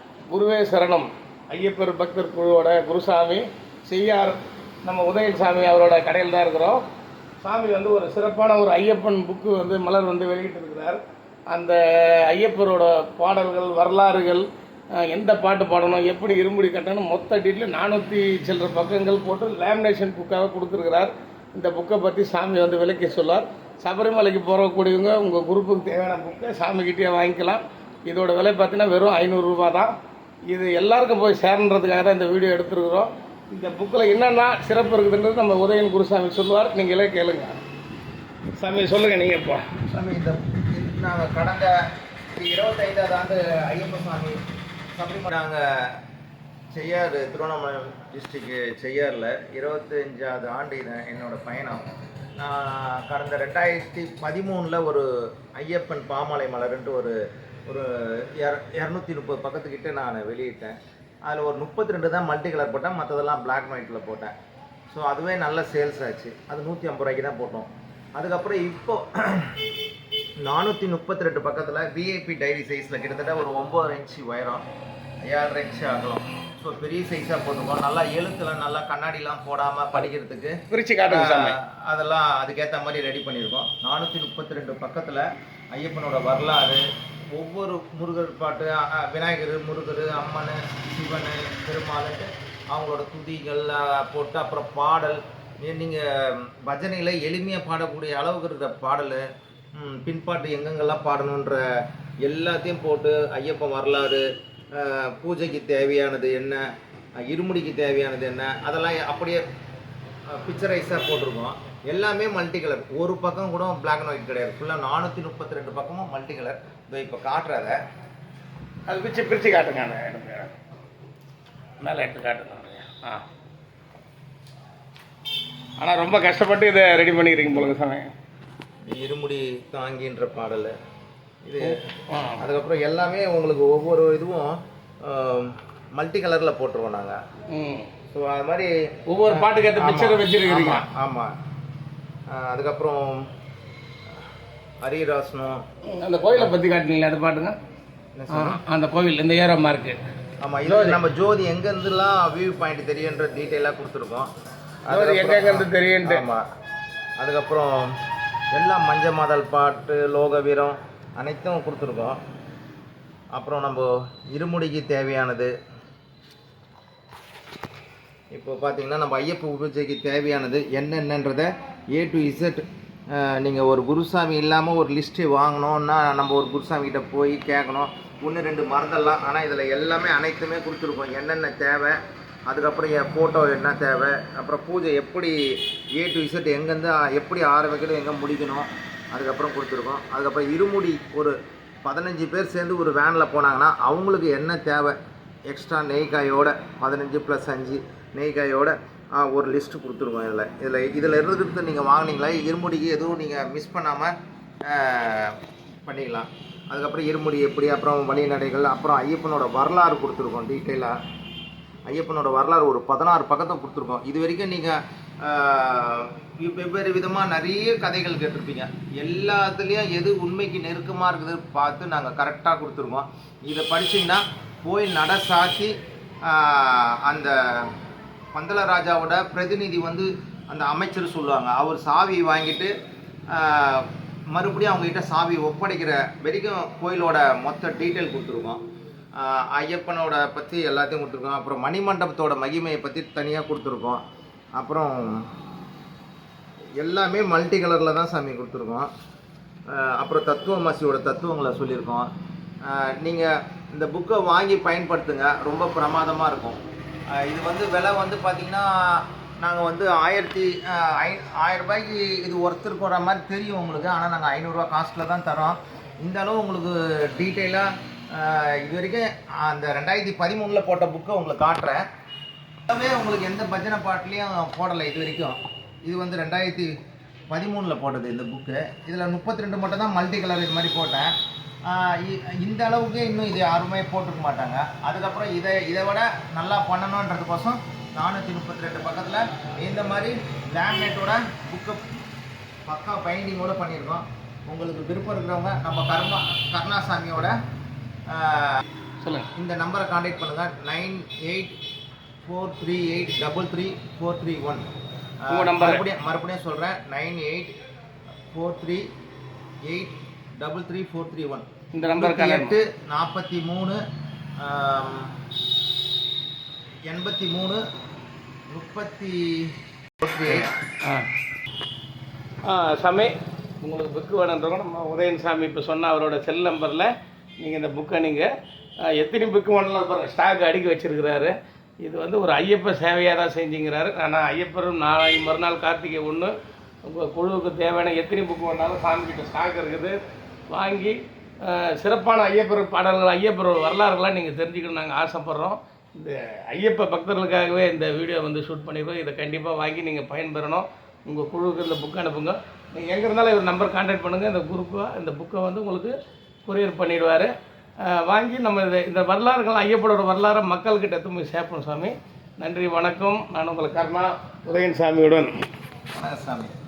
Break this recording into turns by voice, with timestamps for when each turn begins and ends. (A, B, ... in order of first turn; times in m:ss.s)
0:00.3-0:06.8 A
0:07.4-0:14.4 A
0:15.0-0:29.9 A
0:30.5-0:37.6 A
0:38.6-0:39.6 A
0:39.9-0:41.7 B
0:42.4-0:44.4 B
0:44.9-0:46.0 B
0:46.7-0:51.8 B
0:52.4-0:57.2 B
0:57.7-1:04.3 B
1:04.9-1:09.6 B
1:10.4-1:14.6 B
1:15.2-1:26.8 B
1:20.7-1:21.6 A
1:27.4-1:41.6 B
1:42.2-1:46.6 B
1:47.2-1:49.4 B
1:50.3-1:57.8 B
1:58.9-2:00.5 A
2:01.8-2:03.2 A
2:05.8-2:08.1 A
2:08.8-2:10.7 B
2:11.4-2:11.8 B
2:11.6-2:12.4 A
2:12.4-2:17.2 B
2:17.5-2:17.9 A
2:18.1-2:18.7 B
2:19.1-2:20.8 A
2:19.2-2:21.3 B
2:22.3-2:23.2 B
2:24.8-2:25.6 B
2:25.9-2:27.6 A
2:28.1-2:28.6 B
2:28.3-2:30.0 A
2:30.4-2:34.3 B
2:30.7-2:31.0 A
2:34.8-2:36.4 B
2:34.9-2:36.2 A
2:37.2-2:37.9 B
2:38.5-2:42.2 B
2:43.3-2:45.5 B
2:48.3-3:24.1 B
3:24.6-3:30.9 B
3:31.9-3:47.7 B
3:48.3-3:52.7 B
3:53.3-3:58.6 B
3:59.2-4:04.0 B
4:04.6-4:05.2 B
4:06.8-4:08.9 B
4:09.7-4:12.1 B
4:12.6-4:16.6 B
4:17.2-4:31.8 B
4:32.7-4:36.7 B
4:37.3-4:41.1 B
4:41.6-4:51.8 B
4:52.7-4:57.4 B
4:58.1-4:58.6 B
4:59.0-4:59.3 A
4:59.3-5:01.6 B
5:02.2-5:04.6 B
5:05.2-5:07.5 B
5:05.3-5:05.8 A
5:08.3-5:08.8 B
5:09.6-5:13.8 B
5:11.7-5:12.6 A
5:14.4-5:15.1 B
5:16.9-5:17.6 B
5:18.5-5:20.5 B
5:20.3-5:21.1 A
5:22.4-5:28.3 A
5:28.9-5:36.3 A
5:36.8-5:40.0 A
5:40.5-5:57.3 A
5:57.8-6:05.4 A
6:05.9-6:06.6 B